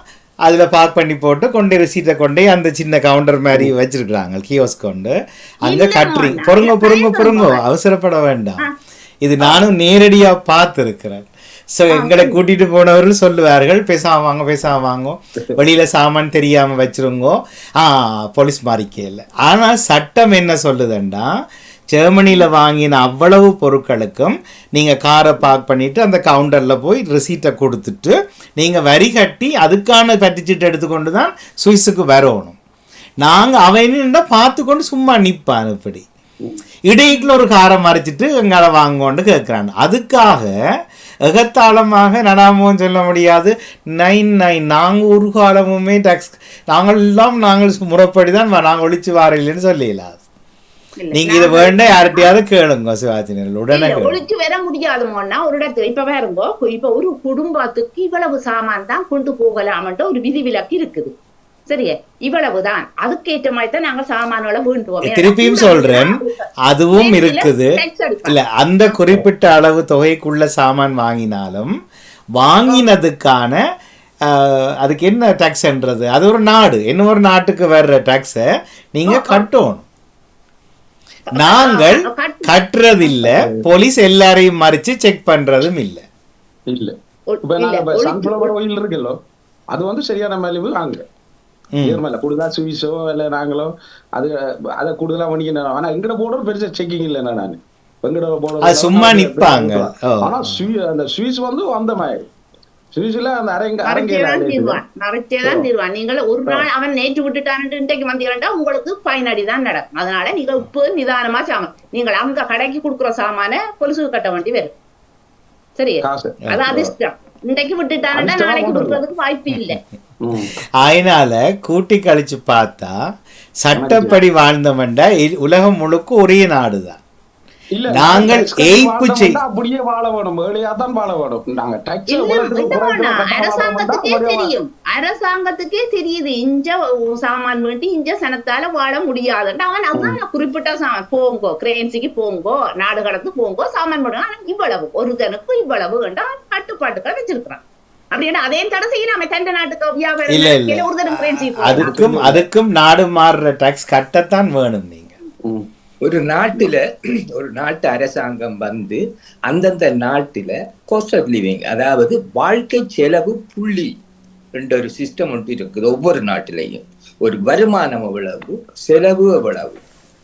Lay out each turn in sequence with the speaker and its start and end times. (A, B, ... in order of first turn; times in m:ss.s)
0:00.4-0:08.6 A
0:05.6-0:07.6 B
0:09.2-0:21.3 A
0:11.9-0:12.4 B
0:21.9-0:32.6 A
0:33.2-0:36.0 A
0:36.9-0:40.5 A
0:41.2-0:50.2 A
0:51.0-0:52.3 B
0:51.1-0:54.2 A
0:53.7-1:01.1 B
1:01.7-1:09.0 B
1:05.0-1:11.7 A
1:12.4-1:13.6 A
1:14.2-1:19.8 A
1:19.1-1:19.5 B
1:21.3-1:22.5 B
1:21.3-1:26.0 A
1:23.2-1:23.6 C
1:26.7-1:26.9 C
1:27.3-1:28.5 B
1:27.4-1:29.2 C
1:29.7-1:31.0 C
1:31.8-1:32.0 A
1:31.8-1:42.3 C
1:38.6-1:40.6 A
1:42.9-1:44.8 C
1:43.8-1:54.7 B
1:55.8-1:59.8 B
1:56.0-1:56.9 C
1:58.1-1:59.0 C
2:00.2-2:00.5 C
2:00.8-2:02.9 A
2:03.6-2:07.0 A
2:03.8-2:04.1 C
2:07.7-2:14.5 C
2:07.9-2:09.4 A
2:12.1-2:27.6 B
2:28.1-2:32.0 B
2:30.3-2:35.1 A
2:31.8-2:32.4 C
2:36.0-2:36.8 D
2:37.3-2:43.9 D
2:44.5-2:49.8 D